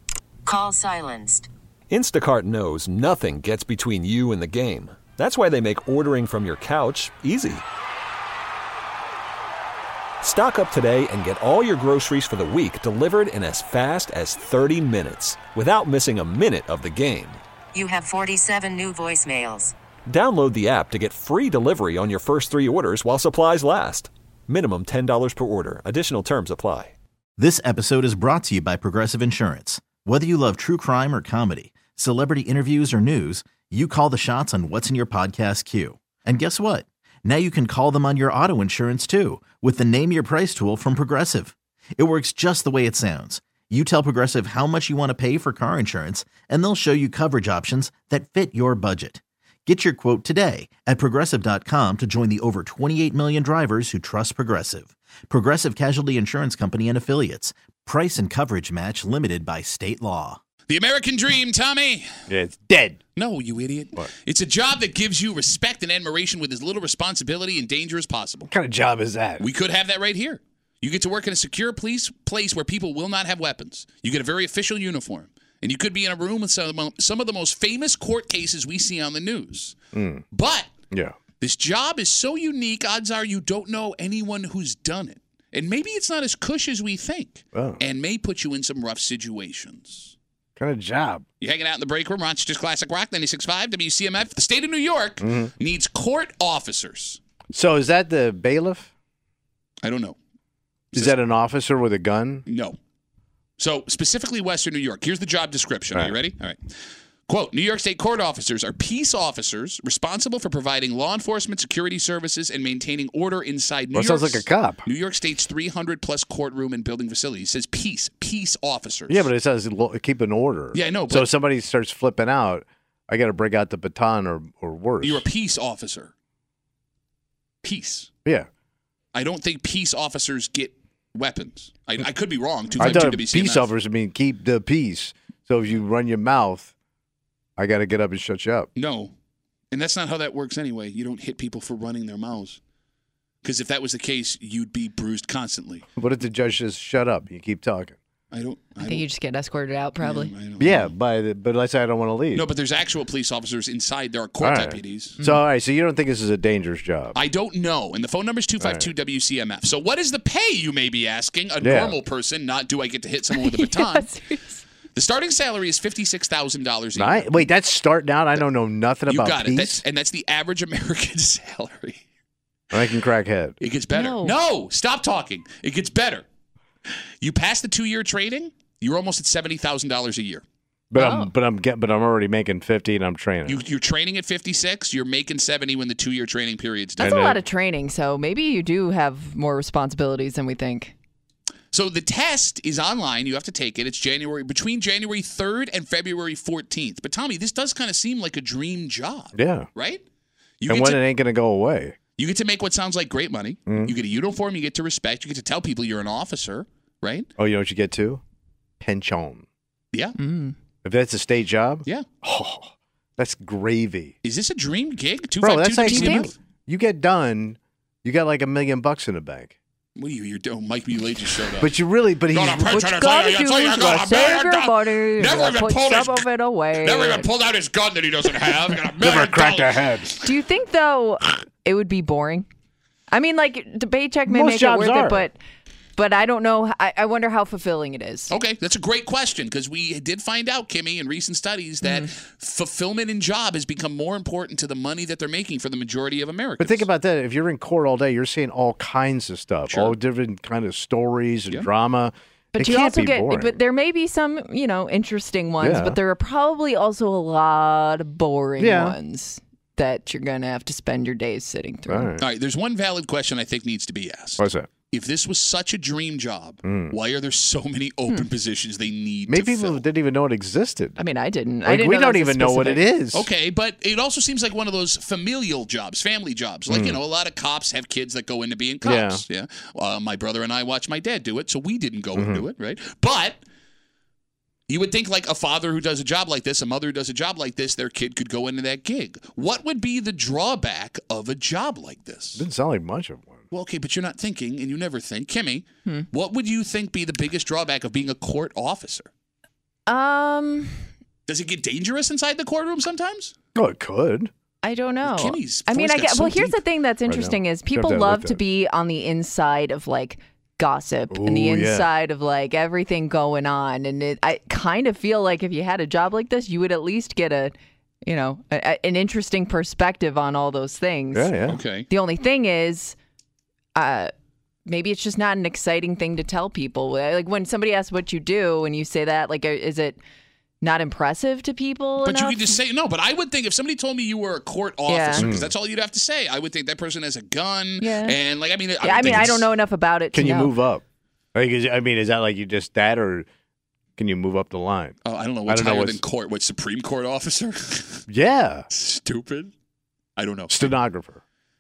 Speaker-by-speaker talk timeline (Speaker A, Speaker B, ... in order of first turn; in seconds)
Speaker A: 0.5-1.5, 17.8-19.7
Speaker B: 1.9-7.7, 10.2-17.4, 20.1-26.9
Speaker C: 27.4-60.4
Speaker D: 60.7-62.0, 63.2-68.5, 69.4-79.8, 80.3-80.7, 81.4-90.1, 91.4-97.2, 99.8-100.2, 102.5-102.8, 103.6-106.6, 107.3-119.3, 120.7-121.3, 125.0-126.1, 127.6-128.1, 129.1-133.7, 138.8-139.1, 139.7-142.6, 143.4-145.8, 148.3-149.1, 150.0-150.9, 152.3-155.2, 157.1-164.1, 164.9-167.5, 169.1-172.0, 173.6-176.2, 177.2-180.4, 183.5-187.4, 191.7-200.0, 200.6-201.0, 202.2-207.3, 214.2-216.3, 220.0-221.8, 222.3-230.0, 238.3-246.9, 249.7-249.9, 262.2-269.8, 273.1-283.4, 284.7-292.4, 293.5-299.1, 301.3-303.3, 305.0-306.6, 321.5-321.9, 332.0-339.5, 345.0-348.0, 348.7-349.5, 350.2-350.8
Speaker E: 62.3-63.0, 68.5-69.5, 79.9-80.2, 80.9-81.2, 87.5-87.8, 90.6-91.2, 95.2-95.5, 97.5-98.9, 101.0-102.4, 113.9-114.8, 119.1-125.2, 132.8-136.7, 137.6-138.7, 146.0-148.0, 150.6-152.5, 154.4-157.2, 158.6-158.9, 161.6-162.0, 166.9-169.8, 172.7-173.6, 180.9-183.6, 187.0-187.4, 199.3-199.7, 200.7-202.0, 203.7-203.9, 207.4-208.2, 208.8-209.4, 210.8-214.2, 215.4-219.6, 221.6-222.8, 229.0-230.2, 234.3-235.3, 246.6-253.6, 255.6-256.0, 258.6-259.0, 261.9-262.2, 264.4-264.7, 266.6-267.0, 269.3-271.0, 271.6-273.3, 276.7-277.0, 278.8-279.2, 282.1-282.5, 292.4-293.4, 303.6-304.3, 307.1-308.4, 311.1-311.9, 321.1-321.6, 335.2-335.5, 340.1-340.8, 341.4-343.3, 344.0-346.0, 348.1-348.7, 350.5-351.2
Speaker F: 148.8-150.3, 155.2-155.4, 163.3-164.6, 173.9-174.4, 181.0-181.3, 187.0-190.9, 210.2-210.5, 215.9-216.3, 222.7-227.3, 230.2-232.5, 233.1-235.4, 236.0-238.3, 241.8-242.1, 252.5-262.1, 271.0-272.8, 299.9-300.8, 304.6-321.4, 321.9-323.0, 323.8-324.1, 324.7-330.0, 330.6-332.6, 334.9-335.3, 337.8-338.2, 338.8-340.6